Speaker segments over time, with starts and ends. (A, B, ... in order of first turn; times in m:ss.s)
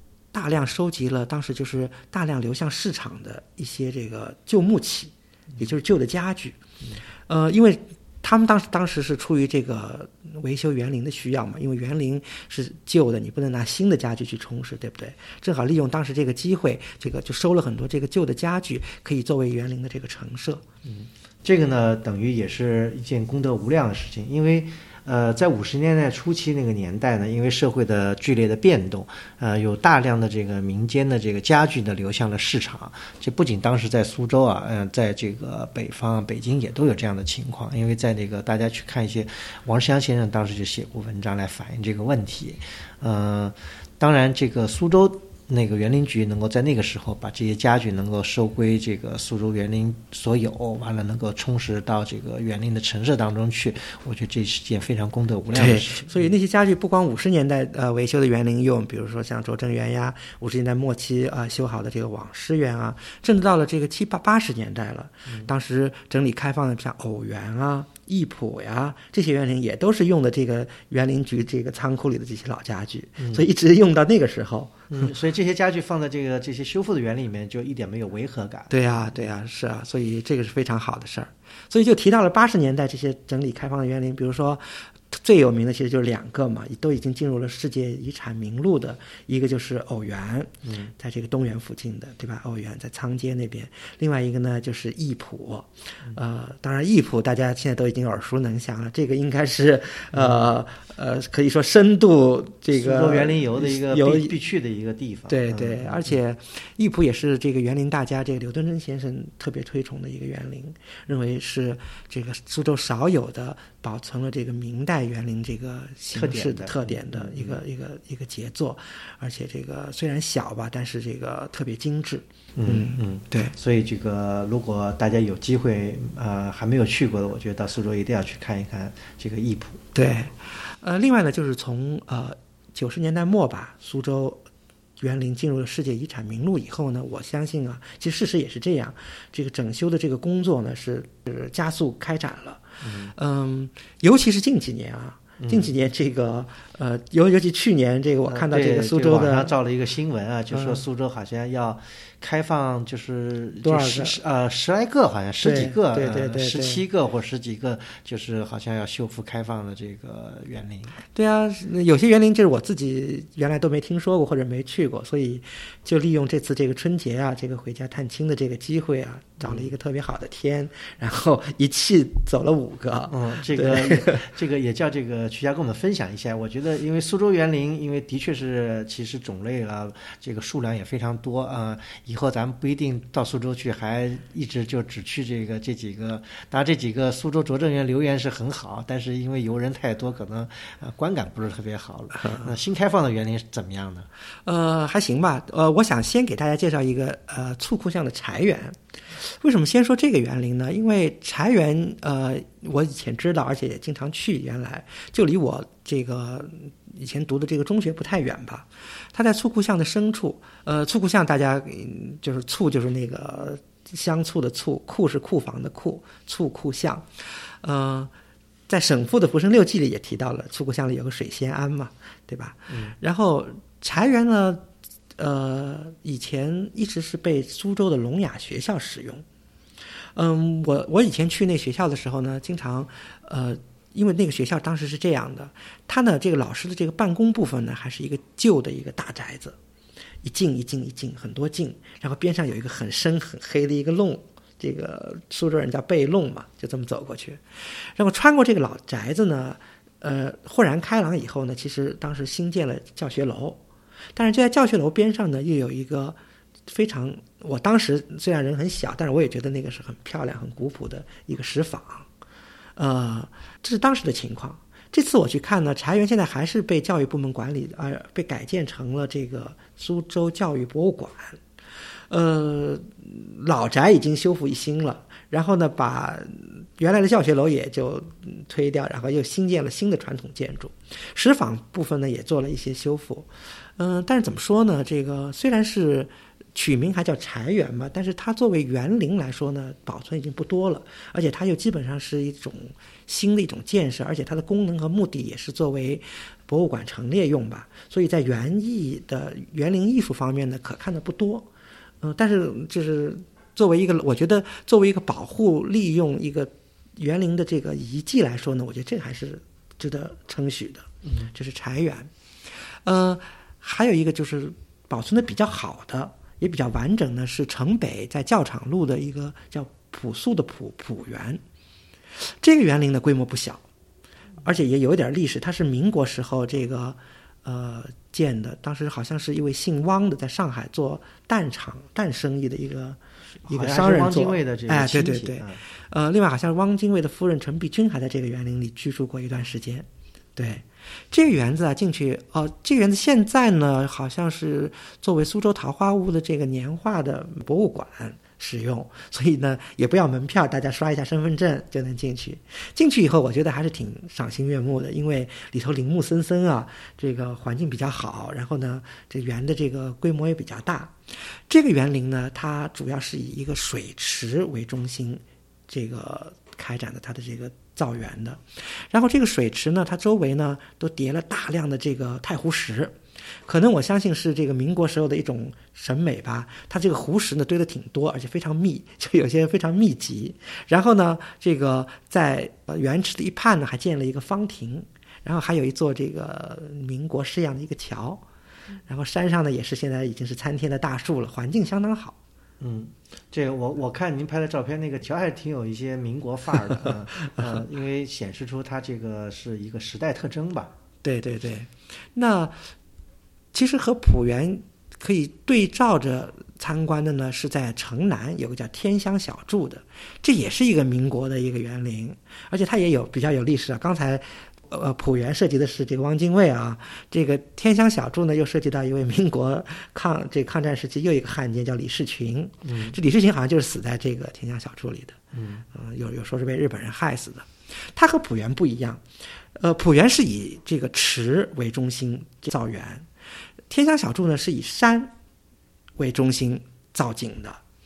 0:00.3-0:06.6 A
0:07.3-0:20.6 A
0:20.8-0:56.2 B
0:55.5-1:15.1 A
1:14.9-1:19.2 B
1:18.7-1:44.3 A
1:30.6-1:30.9 B
1:40.1-1:40.6 B
1:42.7-1:46.1 B
1:45.3-2:03.5 A
1:56.1-1:57.6 B
2:02.6-2:09.8 B
2:10.0-2:14.4 A
2:15.0-2:29.6 A
2:22.8-2:23.1 B
2:25.4-2:25.7 B
2:28.3-2:41.0 B
2:30.5-2:30.8 A
2:33.6-2:34.2 A
2:35.4-2:36.8 A
2:41.2-2:54.2 A
2:49.4-2:49.7 B
2:53.1-3:14.1 B
3:12.2-3:12.5 A
3:14.5-3:38.1 A
3:38.7-3:44.6 A
3:42.7-3:43.0 B
3:45.2-3:49.2 A
3:50.2-3:59.6 A
4:00.2-4:07.4 A
4:08.0-4:13.6 A
4:14.2-4:22.1 A
4:22.8-4:31.4 A
4:32.1-5:01.5 A
5:02.0-5:12.1 A
5:11.0-5:11.3 B
5:12.8-5:21.4 A
5:22.4-5:23.6 A
5:24.4-6:00.9 A
5:33.5-5:35.6 B
6:01.5-6:13.0 A
6:13.5-6:28.2 A
6:28.9-6:32.2 A
6:32.6-6:40.7 B
6:41.0-6:42.6 A
6:43.5-7:05.2 A
7:02.6-7:03.0 B
7:05.3-7:05.6 B
7:05.7-7:09.0 A
7:09.6-7:13.1 A
7:13.7-7:15.1 A
7:16.0-7:17.6 A